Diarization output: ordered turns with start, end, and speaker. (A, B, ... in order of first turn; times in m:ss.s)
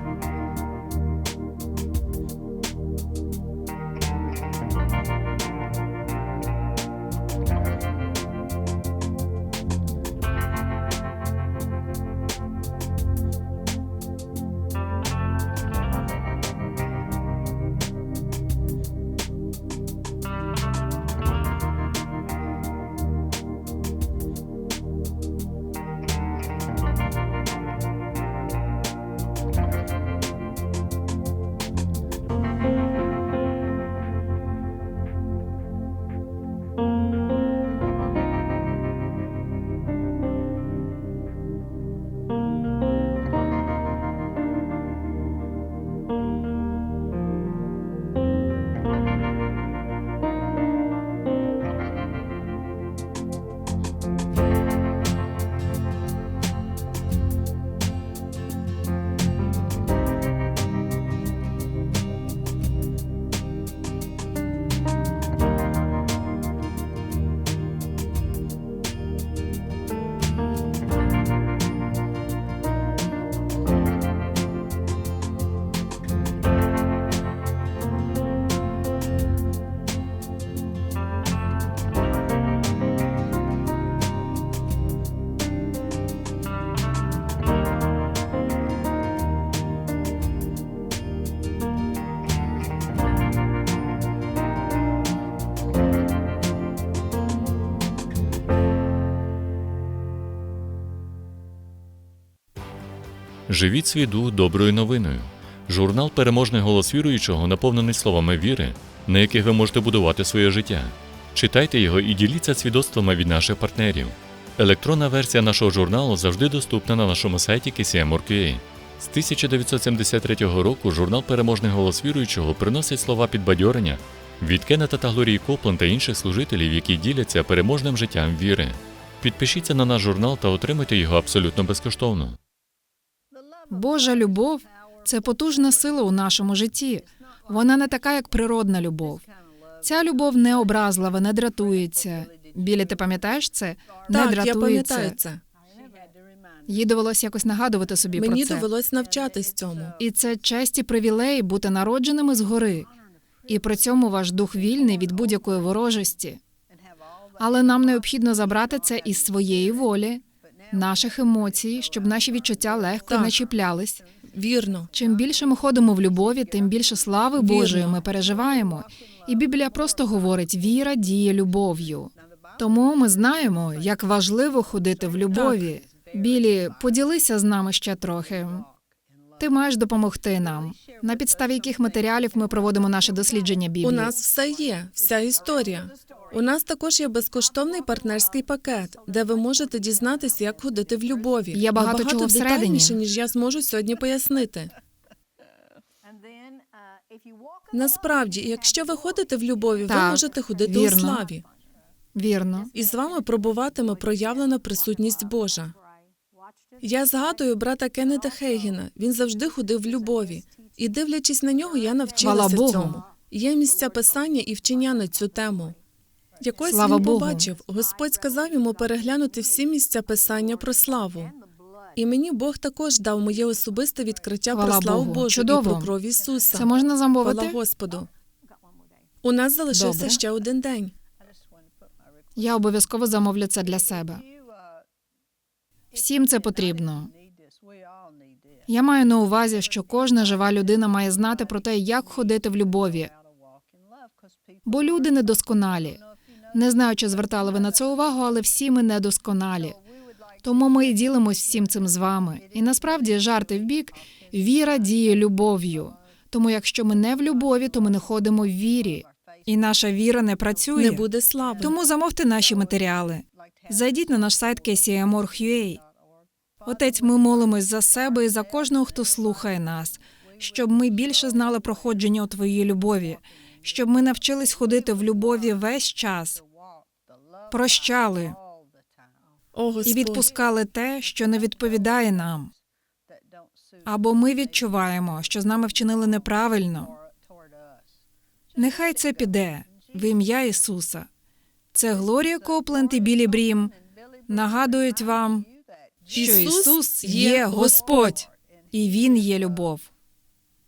1:43.5-2:12.4 A
2:13.7-2:19.2 B
2:19.8-2:25.2 B
2:24.1-2:25.4 C
2:26.7-2:28.7 B
2:28.1-2:30.0 C
2:30.0-2:32.9 B
2:33.5-2:36.4 B
2:37.4-2:44.0 B
2:43.1-2:43.4 C
2:44.3-2:44.9 C
2:44.9-2:58.7 B
2:47.4-2:48.0 C
2:55.3-2:55.7 C
2:59.4-3:04.1 B
3:03.8-3:14.7 C
3:11.5-3:13.0 B
3:17.7-3:21.4 C
3:19.9-3:21.2 B
3:22.1-3:22.7 B
3:22.7-3:25.8 C
3:26.8-3:35.8 C
3:32.2-3:33.0 B
3:36.4-3:41.4 C
3:36.7-3:37.5 B
3:41.9-3:48.1 C
3:44.5-3:45.9 B
3:46.5-3:47.6 B
3:49.2-3:50.9 C
3:49.7-3:50.2 B
3:52.4-3:54.2 B
3:55.9-3:57.1 B
3:58.7-4:03.1 B
4:04.6-4:06.0 B
4:06.5-4:09.8 B
4:10.4-4:21.0 B
4:20.7-4:21.7 C
4:21.6-4:25.8 B
4:26.6-4:36.4 B
4:37.5-4:38.4 B
4:39.5-4:40.3 C
4:39.8-4:42.5 B
4:43.8-4:46.9 B
4:48.6-4:51.1 B
4:51.7-4:53.7 B
4:54.3-4:55.5 B
4:56.1-4:59.9 B
4:56.1-4:58.1 C